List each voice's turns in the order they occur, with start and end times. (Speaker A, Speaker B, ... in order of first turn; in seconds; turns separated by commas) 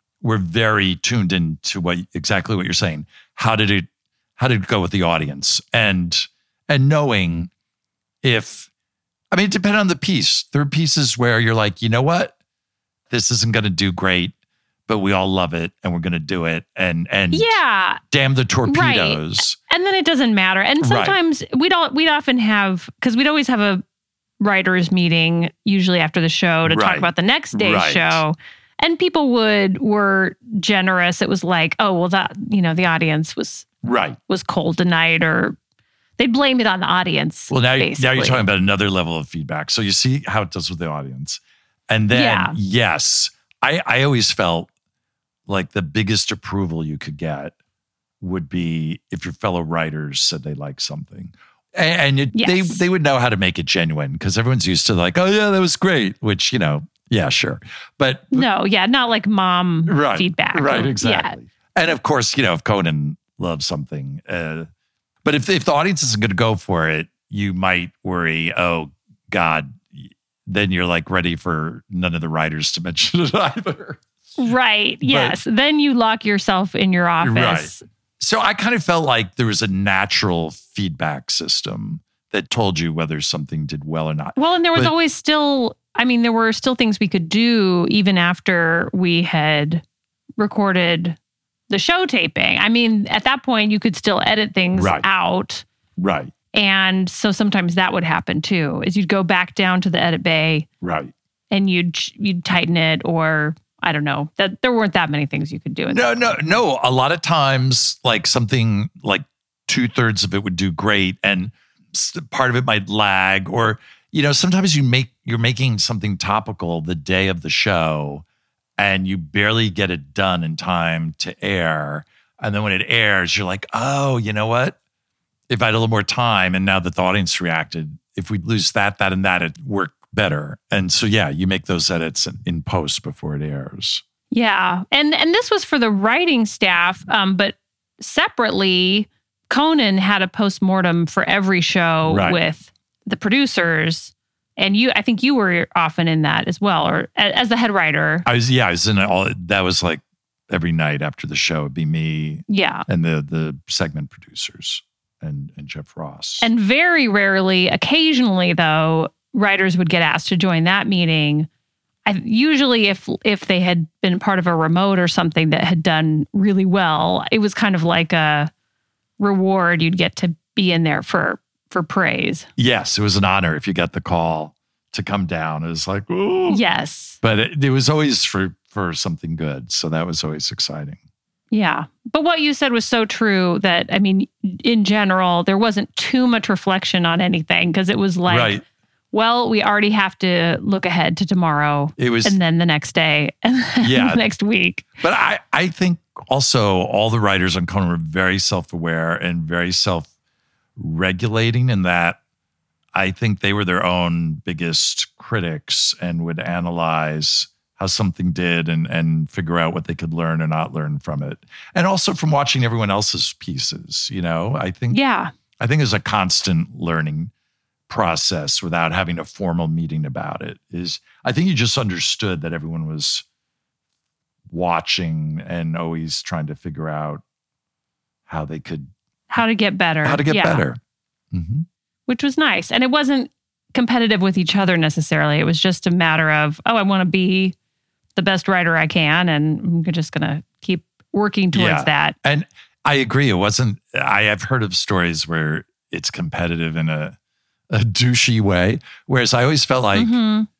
Speaker A: 0.2-7.5, Speaker A: 8.2-8.7, Speaker A: 9.3-12.3, Speaker A: 13.1-14.3, Speaker A: 14.9-17.6, Speaker B: 17.3-18.0, Speaker A: 18.1-19.6, Speaker B: 18.6-23.8, Speaker A: 20.8-21.2, Speaker B: 24.4-33.7, Speaker A: 26.6-28.2, Speaker A: 33.8-34.2, Speaker B: 34.3-35.5, Speaker B: 36.2-38.4, Speaker A: 37.5-44.7, Speaker B: 42.1-42.6, Speaker A: 45.5-47.5, Speaker A: 48.2-58.5, Speaker B: 52.3-52.8, Speaker B: 58.3-61.4, Speaker A: 59.9-64.7, Speaker A: 65.2-74.0, Speaker B: 74.4-77.8, Speaker A: 75.0-75.4, Speaker A: 77.2-84.9, Speaker B: 84.3-89.8, Speaker B: 90.4-91.2, Speaker B: 91.7-95.6, Speaker A: 94.7-95.0, Speaker A: 96.0-96.3, Speaker B: 96.5-100.7, Speaker A: 100.8-101.1, Speaker B: 101.5-106.5, Speaker A: 105.9-118.2, Speaker A: 118.8-124.8, Speaker A: 125.5-134.0, Speaker B: 134.3-148.2, Speaker A: 142.1-142.4, Speaker A: 148.2-156.5, Speaker B: 152.5-152.8, Speaker B: 156.4-161.5, Speaker B: 162.1-168.5, Speaker B: 169.2-172.5, Speaker A: 172.6-176.6, Speaker B: 176.5-177.2, Speaker A: 177.2-181.0, Speaker B: 181.5-188.6, Speaker A: 188.3-188.6, Speaker B: 189.1-194.9, Speaker A: 192.0-192.4, Speaker A: 193.8-194.2, Speaker A: 195.0-200.1, Speaker A: 200.8-202.2, Speaker A: 202.9-215.0, Speaker B: 214.9-215.3, Speaker A: 215.6-217.3, Speaker A: 217.9-223.2, Speaker A: 224.5-227.2, Speaker A: 228.3-228.9, Speaker B: 229.3-230.6, Speaker A: 230.0-230.8, Speaker A: 231.3-231.7, Speaker B: 232.1-237.5, Speaker B: 238.2-242.1, Speaker A: 241.5-247.2, Speaker A: 247.7-250.2, Speaker B: 249.9-250.5